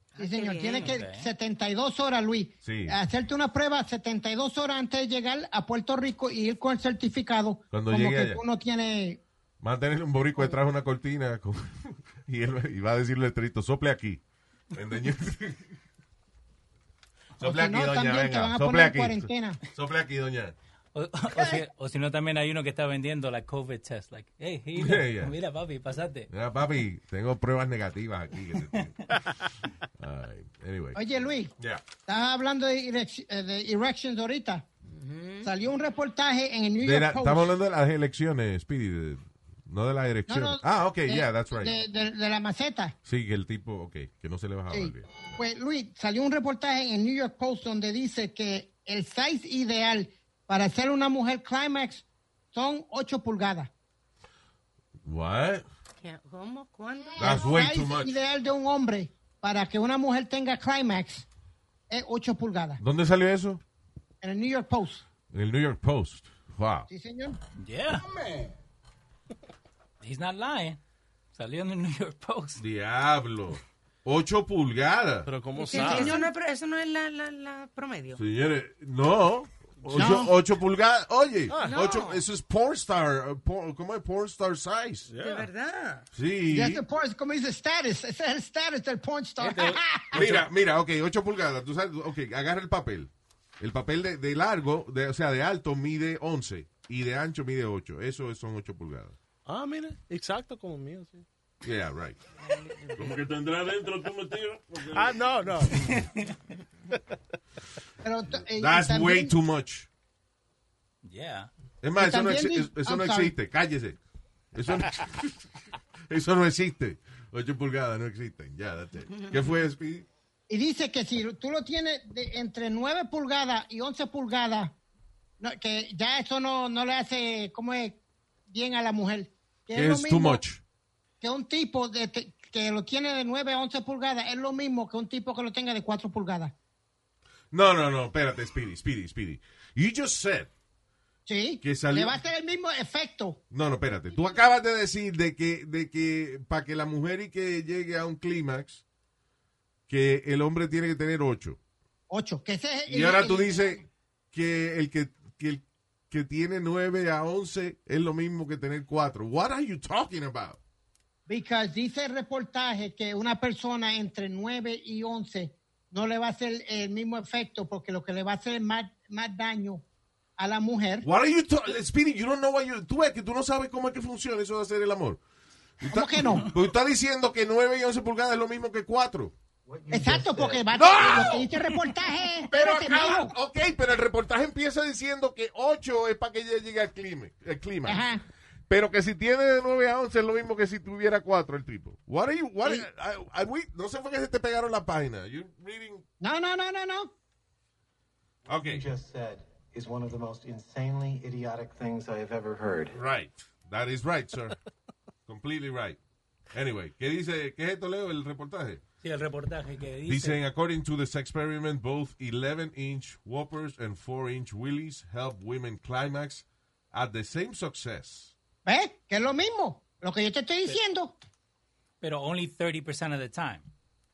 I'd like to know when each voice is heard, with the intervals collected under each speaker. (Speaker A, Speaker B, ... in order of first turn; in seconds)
Speaker A: 0.1-0.9, 34.9-35.5, 56.0-57.5, 75.6-78.2, 81.6-82.2, 85.2-86.1, 102.4-103.2
Speaker B: 0.2-9.2, 17.4-19.6, 30.9-31.5, 32.1-34.6, 35.4-37.5, 40.3-42.9, 44.7-53.7, 57.2-61.2, 61.9-62.8, 64.2-65.0, 66.9-67.4, 75.7-76.3, 79.9-80.3, 86.5-90.2, 108.0-109.3, 112.0-113.3, 120.5-124.8, 125.4-130.4, 131.2-136.5, 141.2-143.4, 152.1-153.8, 161.3-169.8, 170.4-171.1, 175.9-176.5, 179.9-183.3, 187.9-188.2, 196.2-197.1, 218.6-221.2
Speaker C: 0.8-1.3, 20.9-26.3, 67.6-68.1, 70.0-70.8, 71.3-72.6, 89.4-90.4, 105.9-106.3, 111.0-111.5, 209.0-210.4, 222.0-223.7
Speaker D: 2.6-3.0, 7.7-8.4, 9.6-14.2, 14.7-15.7, 17.4-20.5, 24.7-25.4, 26.3-28.9, 30.0-31.8, 36.8-41.8, 43.0-45.1, 55.0-55.6, 57.2-58.1, 62.8-63.6, 65.3-66.9, 72.6-75.3, 78.2-85.1, 86.1-86.8, 90.1-99.2, 101.6-102.2, 108.3-109.9, 111.8-114.0, 114.5-115.4, 116.1-120.0, 129.7-130.6, 137.5-140.5, 141.6-142.2, 143.5-148.8, 149.9-151.6, 152.9-160.6, 171.0-175.2, 175.8-179.3, 180.7-181.5, 182.5-188.1, 188.7-196.0, 198.5-198.9, 202.9-204.6, 205.3-206.0, 206.5-208.8, 210.1-218.3
Speaker E: 75.2-76.2, 81.5-81.9, 85.1-85.5, 99.5-101.2, 104.9-106.1
Speaker F: 102.9-105.2
Speaker G: 179.7-181.4, 198.6-202.9